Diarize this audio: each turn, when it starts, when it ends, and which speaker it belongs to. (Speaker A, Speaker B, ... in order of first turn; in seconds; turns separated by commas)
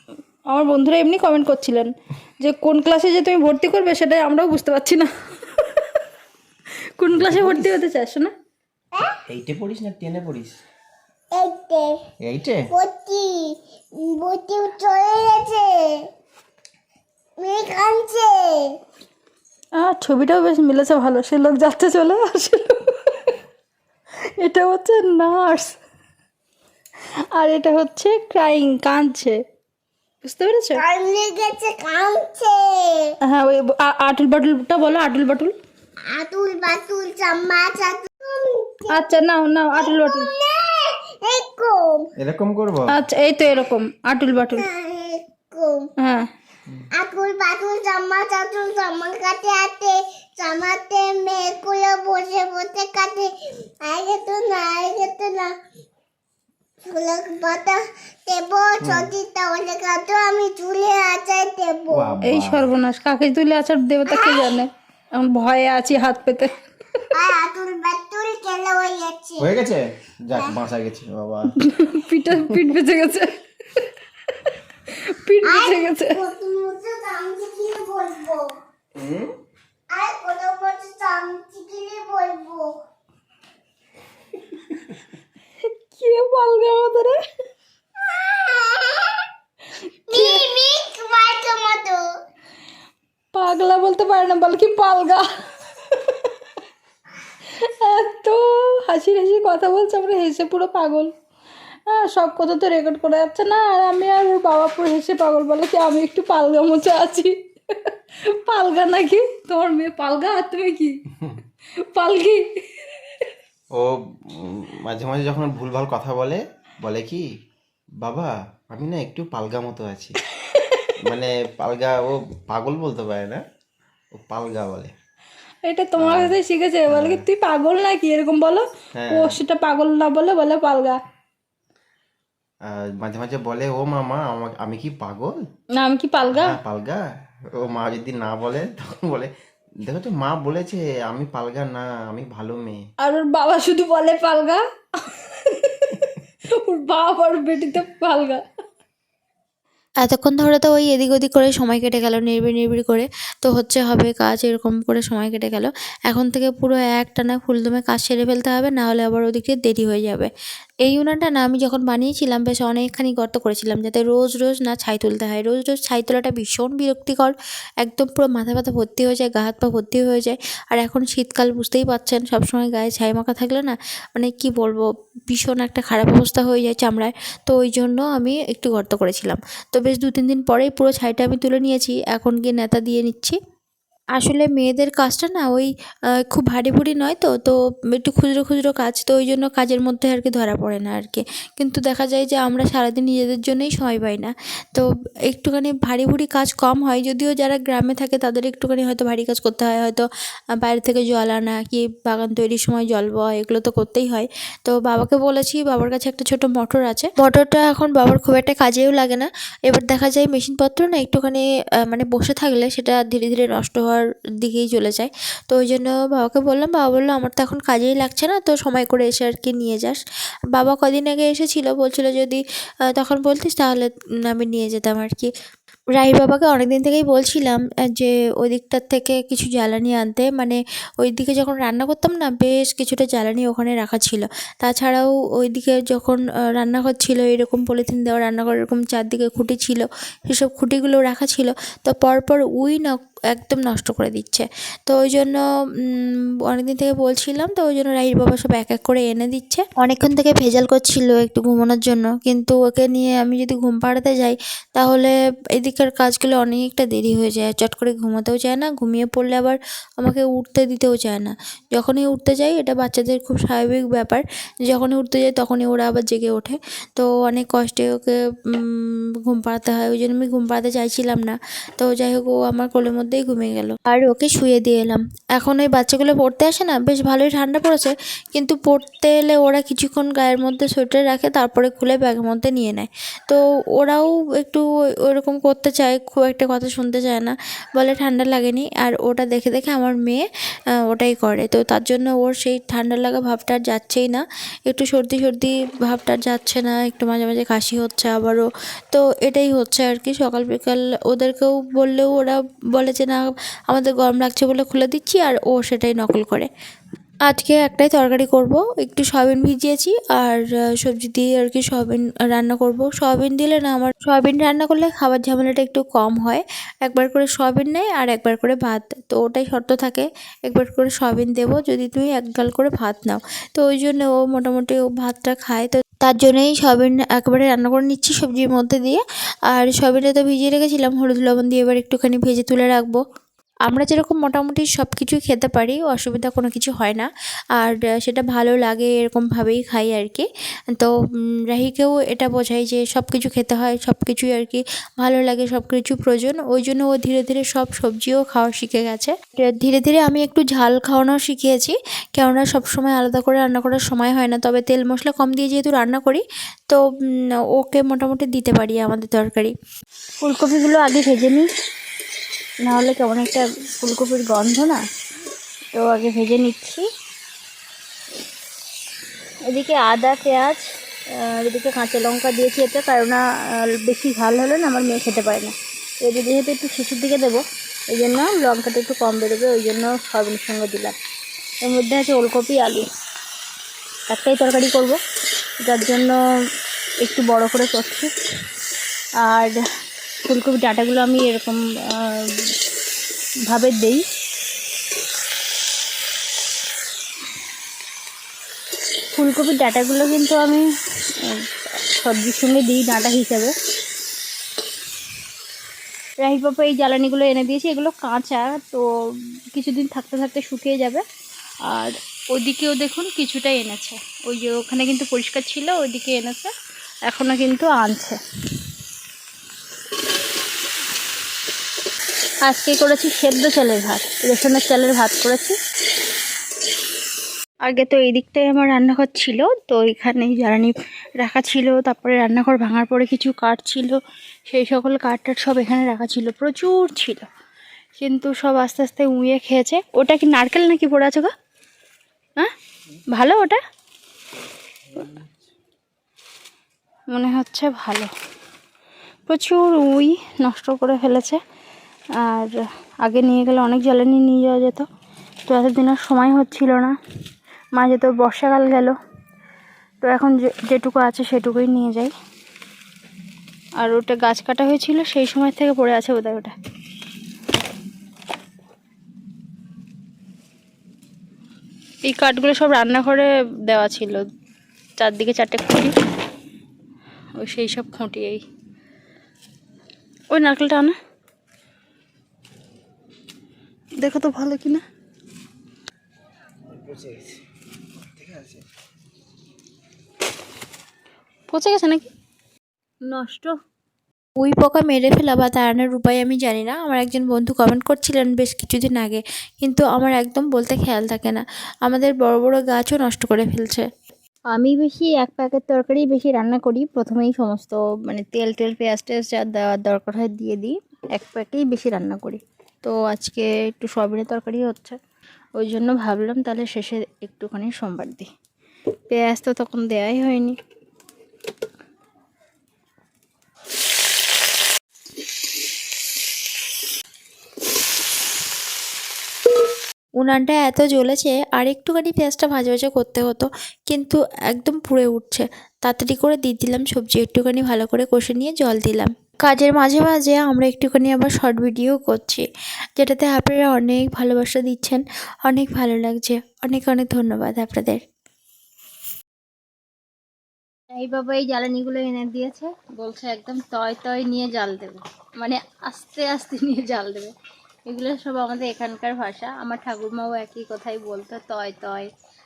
Speaker A: 0.5-5.9, Speaker A: 7.0-8.3, Speaker B: 7.1-7.7, Speaker B: 9.3-10.6, Speaker C: 11.3-11.9, Speaker B: 12.2-12.7, Speaker C: 12.7-15.9, Speaker C: 17.4-18.6, Speaker A: 19.8-23.4, Speaker A: 24.4-25.8, Speaker A: 27.3-29.4, Speaker A: 30.2-30.8, Speaker C: 30.7-33.1, Speaker A: 33.2-35.5, Speaker C: 36.1-39.1, Speaker A: 38.9-40.3, Speaker C: 39.7-42.1, Speaker B: 42.2-42.9, Speaker A: 42.9-44.6, Speaker C: 44.5-45.9, Speaker A: 46.0-46.3, Speaker C: 46.9-55.5, Speaker C: 56.9-62.2, Speaker B: 58.8-59.1, Speaker B: 61.9-62.7, Speaker A: 62.2-66.5, Speaker C: 64.0-64.6, Speaker C: 67.1-69.5, Speaker B: 69.4-71.5, Speaker A: 71.6-76.2, Speaker B: 72.3-72.7, Speaker C: 75.4-78.5, Speaker B: 79.0-79.3, Speaker C: 79.9-82.8, Speaker A: 85.9-87.2, Speaker C: 88.0-89.2, Speaker C: 90.1-92.0, Speaker A: 90.1-90.5, Speaker A: 93.3-95.3, Speaker A: 95.8-96.3, Speaker A: 97.5-101.1, Speaker A: 101.9-111.0, Speaker A: 111.9-113.3, Speaker B: 113.7-117.3, Speaker B: 118.0-120.2, Speaker A: 120.5-120.9, Speaker B: 121.0-123.4, Speaker B: 124.1-124.9, Speaker A: 125.6-131.0, Speaker B: 126.0-127.2, Speaker B: 128.9-129.4, Speaker B: 132.6-135.4, Speaker A: 135.8-136.6, Speaker B: 136.3-142.8, Speaker A: 143.0-148.4, Speaker D: 150.0-160.3, Speaker D: 160.8-183.4, Speaker D: 184.2-185.7, Speaker D: 186.2-200.1, Speaker D: 200.6-220.0, Speaker D: 220.5-225.3, Speaker D: 225.9-290.2, Speaker D: 290.9-306.5, Speaker D: 307.2-333.0, Speaker D: 333.6-340.9, Speaker D: 341.5-356.8, Speaker D: 357.5-359.5, Speaker A: 360.2-361.5, Speaker A: 362.6-364.8, Speaker A: 365.7-366.9, Speaker A: 369.5-380.9, Speaker A: 381.6-382.9, Speaker A: 384.1-385.0, Speaker A: 385.6-386.2, Speaker A: 387.0-388.1, Speaker A: 389.2-389.5, Speaker A: 390.3-392.5, Speaker A: 393.5-394.0, Speaker A: 399.1-400.6, Speaker A: 401.2-403.5, Speaker A: 406.2-408.9, Speaker A: 409.5-411.0, Speaker A: 411.7-416.5, Speaker A: 417.1-418.2, Speaker A: 422.4-425.6, Speaker A: 427.6-437.3, Speaker A: 438.0-441.3, Speaker A: 443.1-443.6, Speaker B: 444.9-445.3, Speaker A: 447.1-448.1, Speaker A: 449.3-451.4, Speaker A: 452.2-454.9, Speaker A: 455.5-456.9, Speaker A: 457.7-458.9, Speaker A: 460.0-462.1, Speaker A: 463.8-466.5, Speaker A: 472.0-474.2, Speaker A: 475.0-475.9, Speaker A: 477.4-478.4, Speaker A: 480.3-480.9, Speaker A: 484.0-484.8, Speaker B: 486.7-487.4, Speaker B: 488.1-488.6, Speaker A: 491.5-492.0, Speaker A: 493.1-493.5, Speaker D: 494.4-503.9, Speaker A: 504.5-515.0, Speaker A: 515.6-518.3, Speaker A: 519.1-520.5, Speaker D: 530.2-542.5, Speaker D: 543.0-548.0, Speaker A: 550.9-557.3, Speaker A: 557.9-562.1